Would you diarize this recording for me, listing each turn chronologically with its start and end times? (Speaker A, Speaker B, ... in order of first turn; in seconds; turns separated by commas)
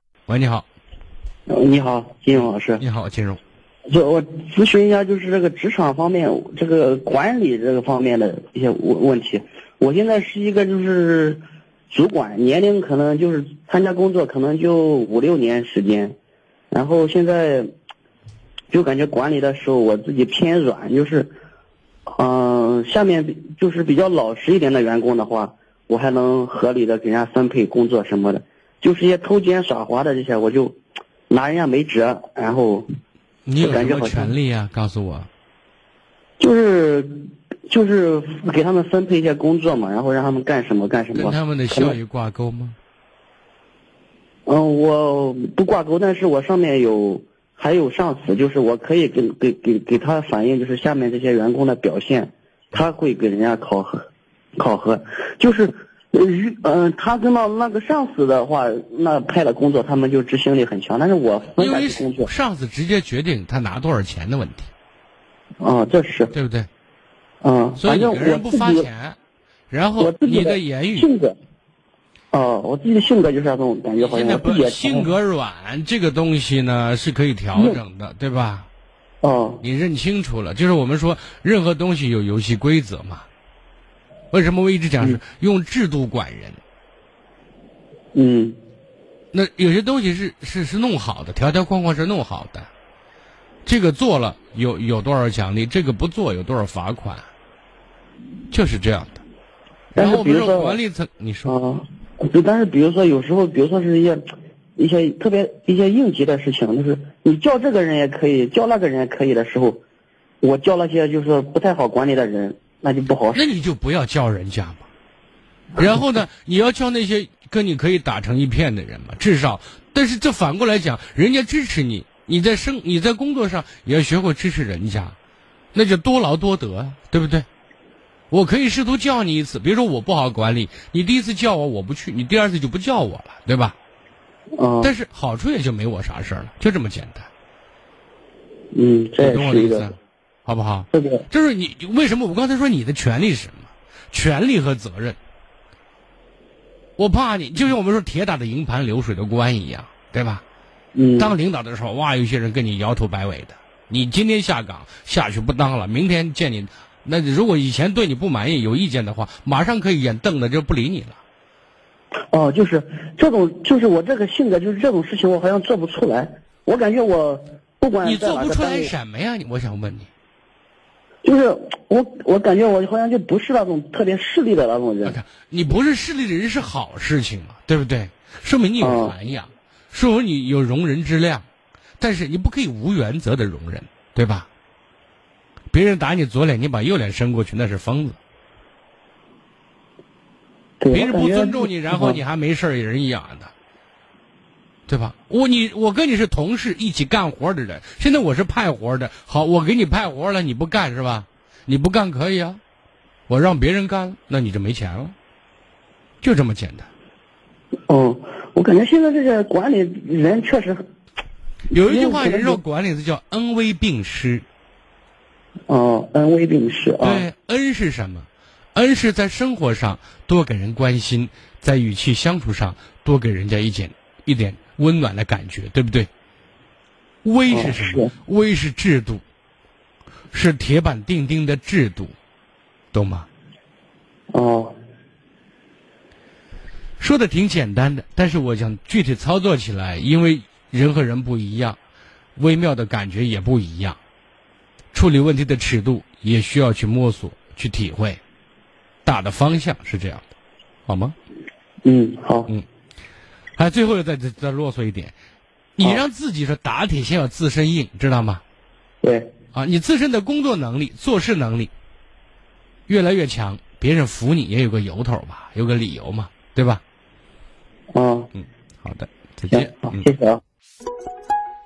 Speaker A: 0.3-0.7, Speaker B: 1.5-2.8, Speaker A: 2.8-3.4, Speaker B: 3.9-16.2, Speaker B: 16.7-17.7, Speaker B: 18.7-21.3, Speaker B: 22.1-30.8, Speaker B: 31.3-32.9, Speaker A: 33.5-35.3, Speaker B: 33.6-34.4, Speaker B: 36.4-37.1, Speaker B: 37.7-42.0, Speaker A: 41.1-42.8, Speaker B: 44.5-54.1, Speaker B: 54.6-62.3, Speaker A: 61.6-64.7, Speaker B: 65.6-66.3, Speaker A: 66.3-66.7, Speaker B: 67.4-68.9, Speaker A: 67.8-69.2, Speaker A: 69.7-71.1, Speaker B: 70.0-71.4, Speaker B: 72.3-75.1, Speaker A: 74.0-78.7, Speaker B: 77.5-77.8, Speaker B: 79.2-79.6, Speaker A: 79.6-83.3, Speaker A: 84.3-86.6, Speaker B: 88.2-88.6, Speaker A: 89.3-92.7, Speaker A: 93.7-97.3, Speaker A: 98.5-99.2, Speaker A: 99.9-101.5, Speaker B: 100.0-100.8, Speaker B: 101.5-104.2, Speaker B: 104.8-109.8, Speaker B: 110.4-113.5, Speaker A: 113.3-114.9, Speaker A: 115.8-125.2, Speaker A: 125.7-127.5, Speaker A: 128.3-133.8, Speaker B: 134.6-134.9, Speaker A: 134.8-137.3, Speaker B: 138.7-139.9, Speaker A: 139.2-145.2, Speaker B: 140.9-141.3, Speaker A: 147.0-150.4, Speaker B: 150.9-151.3, Speaker A: 151.2-161.2, Speaker B: 162.3-168.9, Speaker A: 168.0-170.1, Speaker B: 171.2-175.2, Speaker A: 175.0-181.5, Speaker B: 178.8-179.1, Speaker A: 182.0-184.5, Speaker A: 185.7-188.2, Speaker B: 190.8-192.2, Speaker A: 190.9-193.5, Speaker A: 194.9-202.6, Speaker A: 203.3-205.2, Speaker A: 206.2-206.9, Speaker B: 207.9-210.8, Speaker A: 211.7-214.5, Speaker B: 211.8-212.6, Speaker B: 215.7-217.3, Speaker A: 217.0-226.1, Speaker A: 227.2-229.2, Speaker B: 227.5-228.1, Speaker A: 230.3-232.2, Speaker A: 232.9-233.3, Speaker B: 234.3-234.8, Speaker A: 237.0-241.8, Speaker A: 242.4-244.0, Speaker A: 244.9-248.2, Speaker A: 249.1-250.3, Speaker A: 250.9-251.2, Speaker B: 251.8-252.5, Speaker A: 253.6-255.2, Speaker A: 255.8-258.4, Speaker B: 259.0-259.3, Speaker A: 259.5-261.7, Speaker A: 262.9-266.8, Speaker B: 267.9-268.3, Speaker A: 268.4-270.1, Speaker B: 269.5-270.4